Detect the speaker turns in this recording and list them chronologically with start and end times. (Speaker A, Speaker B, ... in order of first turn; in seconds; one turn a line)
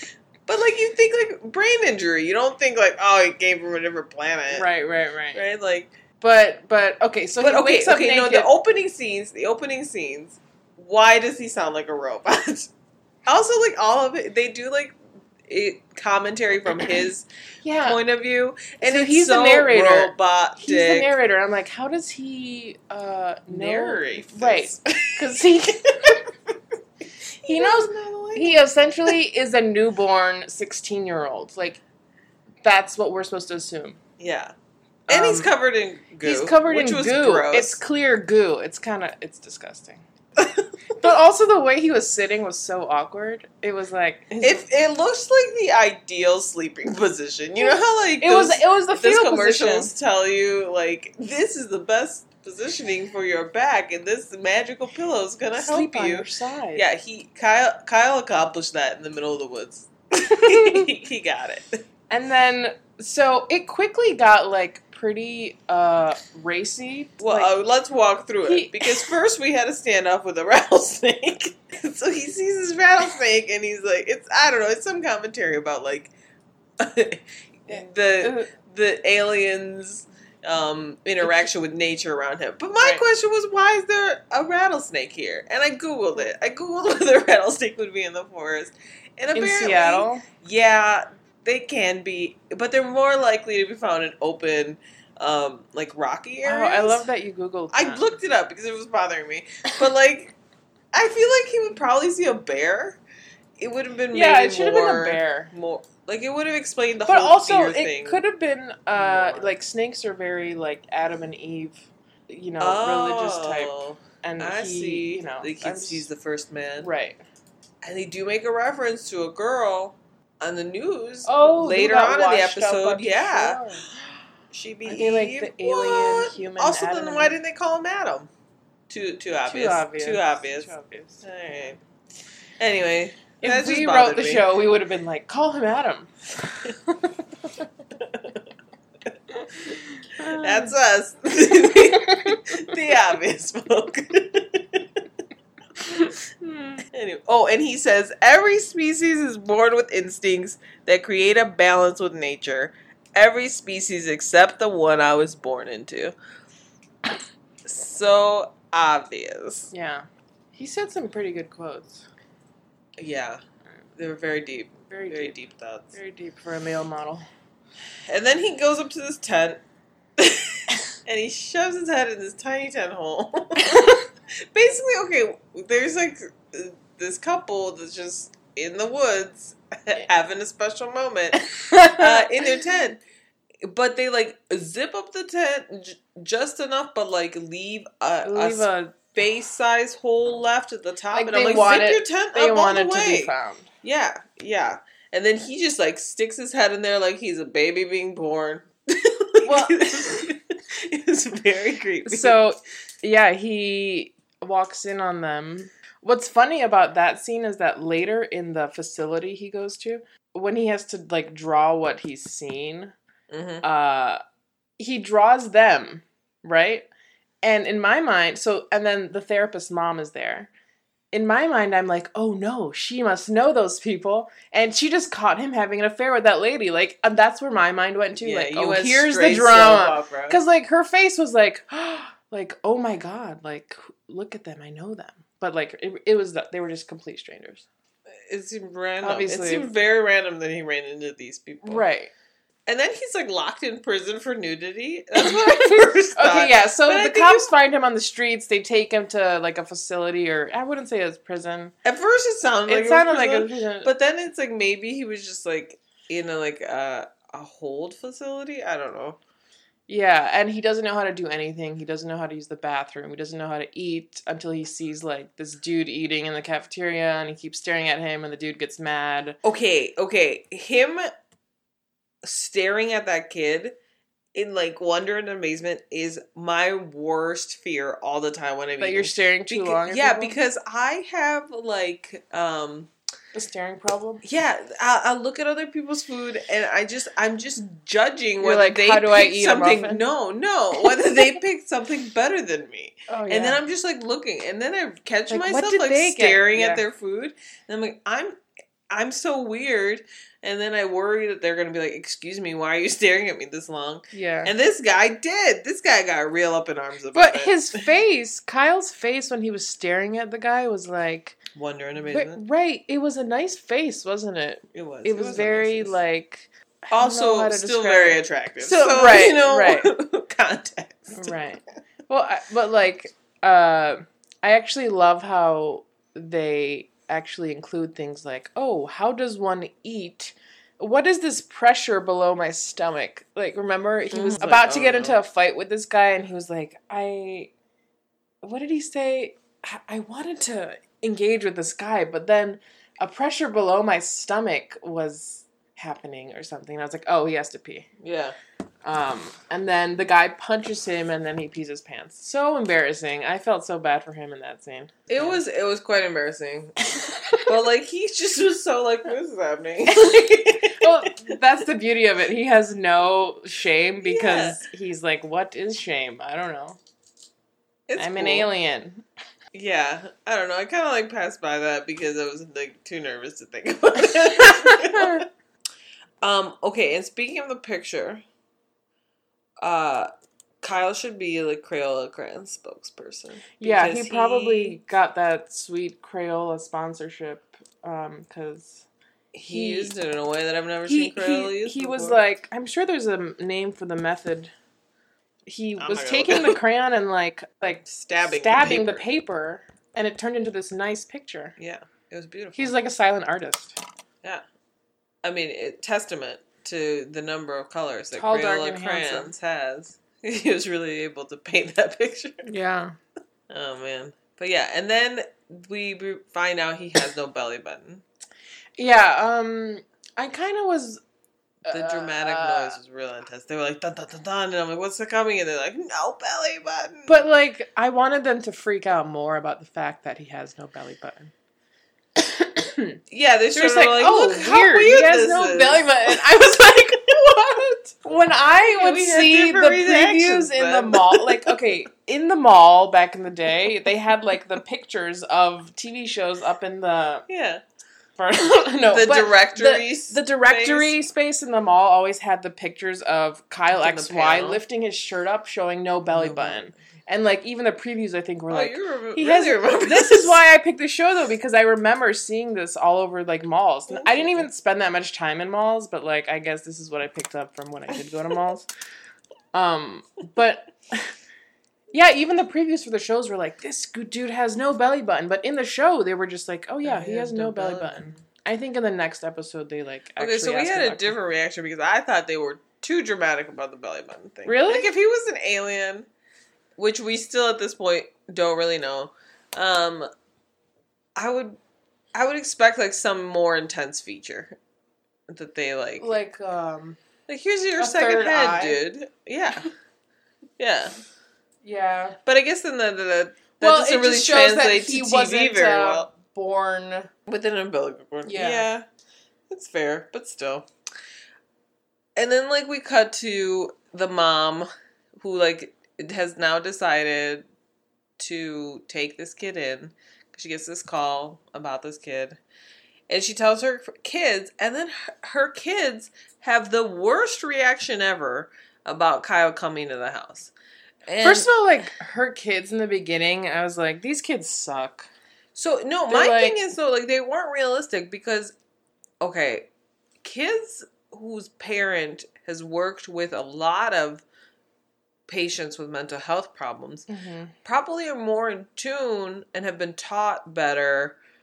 Speaker A: 0.5-4.7
Speaker B: 4.5-5.4
Speaker A: 5.3-5.9
Speaker B: 6.2-8.5
Speaker A: 7.4-12.7
Speaker A: 13.2-17.2
Speaker B: 17.6-18.0
Speaker A: 17.8-21.1
Speaker B: 18.8-26.2
Speaker A: 23.5-26.2
Speaker B: 27.4-31.8
Speaker A: 27.4-28.6
Speaker B: 32.6-34.0
Speaker A: 34.2-34.5
Speaker B: 35.1-35.5
Speaker A: 35.1-37.8
Speaker B: 36.2-40.0
Speaker A: 40.4-40.6
Speaker B: 40.9-44.6
Speaker A: 44.4-61.8
Speaker B: 47.6-49.9
Speaker B: 55.6-56.8
Speaker B: 60.3-60.9
Speaker B: 62.1-67.5
Speaker A: 67.2-76.1
Speaker B: 68.4-69.1
Speaker A: 76.8-97.1
Speaker B: 77.7-78.5
Speaker B: 82.8-83.0
Speaker B: 89.3-90.2
Speaker B: 96.4-98.1
Speaker A: 97.7-100.4
Speaker A: 100.9-103.0
Speaker A: 103.6-108.2
Speaker B: 104.1-105.5
Speaker B: 107.1-116.1
Speaker A: 108.9-109.6
Speaker A: 112.6-116.9
Speaker B: 116.8-117.2
Speaker A: 117.8-123.9
Speaker B: 121.2-123.9
Speaker A: 124.5-128.3
Speaker B: 124.8-127.4
Speaker A: 128.9-130.7
Speaker B: 129.3-131.7
Speaker A: 131.2-131.8
Speaker A: 132.6-134.5
Speaker B: 133.4-137.1
Speaker A: 137.9-138.4
Speaker B: 139.4-140.7
Speaker A: 140.2-145.1
Speaker B: 141.7-142.7
Speaker B: 145.9-146.8
Speaker A: 146.9-156.1
Speaker A: 157.6-159.7
Speaker B: 159.7-162.1
Speaker A: 163.0-163.4
Speaker A: 164.0-165.9
Speaker B: 164.9-165.4
Speaker B: 165.9-167.2
Speaker A: 168.1-169.6
Speaker A: 170.2-174.0
Speaker B: 173.6-174.0
Speaker A: 174.5-183.0
Speaker B: 181.3-182.6
Speaker A: 183.6-202.4
Speaker B: 188.2-189.1
Speaker B: 191.1-193.7
Speaker B: 199.4-200.2
Speaker B: 202.1-212.9
Speaker A: 213.3-213.6
Speaker B: 213.6-214.2
Speaker B: 214.8-216.9
Speaker B: 217.4-220.5
Speaker B: 221.1-237.7
Speaker A: 228.2-230.4
Speaker A: 238.2-241.8
Speaker B: 239.0-239.7
Speaker B: 241.6-242.1
Speaker A: 242.7-247.5
Speaker B: 245.2-251.7
Speaker A: 251.8-259.2
Speaker B: 252.7-253.9
Speaker B: 259.9-269.4
Speaker A: 269.4-271.1
Speaker A: 272.2-273.8
Speaker A: 274.3-282.9
Speaker B: 278.8-280.3
Speaker B: 283.3-284.2
Speaker A: 284.2-307.8
Speaker B: 288.4-290.0
Speaker B: 290.8-291.4
Speaker B: 293.1-293.6
Speaker B: 295.3-296.8
Speaker B: 304.1-304.5
Speaker B: 307.1-311.4
Speaker A: 311.6-312.4
Speaker B: 312.0-319.9
Speaker A: 314.7-315.9
Speaker A: 316.9-321.3
Speaker B: 321.1-337.5
Speaker A: 334.1-335.2
Speaker B: 338.4-347.9
Speaker A: 348.0-348.4
Speaker B: 348.8-355.4
Speaker A: 355.1-356.8
Speaker B: 357.0-357.5
Speaker A: 357.4-361.1
Speaker B: 359.9-366.8
Speaker A: 364.0-364.6
Speaker A: 367.9-368.5
Speaker B: 368.0-369.0
Speaker A: 369.5-375.3
Speaker B: 374.1-375.2
Speaker A: 376.2-378.2
Speaker A: 379.6-380.1
Speaker A: 380.6-384.8
Speaker B: 383.6-388.9
Speaker A: 389.3-392.2
Speaker B: 389.4-389.9
Speaker B: 390.9-394.5
Speaker B: 395.5-401.6
Speaker A: 395.8-396.6
Speaker A: 397.9-399.0
Speaker A: 401.6-402.7
Speaker B: 402.6-403.8
Speaker A: 405.2-412.4
Speaker B: 408.1-409.3
Speaker B: 412.4-413.0
Speaker A: 413.5-418.0
Speaker B: 418.8-421.0
Speaker B: 421.6-422.8
Speaker A: 421.7-427.2
Speaker B: 427.1-431.3
Speaker B: 432.2-433.0
Speaker A: 433.1-437.1
Speaker B: 433.5-447.2
Speaker A: 438.6-441.6
Speaker A: 447.3-447.6
Speaker B: 448.2-468.7
Speaker A: 448.8-450.9
Speaker A: 453.7-454.6
Speaker A: 456.1-456.7
Speaker A: 458.5-460.4
Speaker A: 463.9-464.5
Speaker B: 469.5-471.1
Speaker B: 471.9-481.2
Speaker A: 476.8-478.2
Speaker A: 480.2-486.1
Speaker B: 484.4-484.9
Speaker A: 486.8-490.1
Speaker A: 491.2-491.6
Speaker A: 492.1-494.6
Speaker A: 495.3-496.1
Speaker B: 496.0-497.0
Speaker A: 497.3-499.7
Speaker B: 497.8-498.8
Speaker A: 500.6-500.9
Speaker B: 501.6-502.2
Speaker A: 502.3-506.1
Speaker B: 503.6-507.1
Speaker A: 507.3-508.8
Speaker B: 508.2-508.7
Speaker A: 509.5-510.7
Speaker A: 512.1-517.4
Speaker A: 518.2-522.4
Speaker A: 523.1-530.5
Speaker A: 531.1-531.5
Speaker B: 531.2-535.1
Speaker A: 535.5-538.5
Speaker B: 536.1-536.6
Speaker A: 539.2-539.7
Speaker A: 540.2-544.2
Speaker A: 545.3-547.1
Speaker B: 547.1-547.5
Speaker A: 547.6-551.2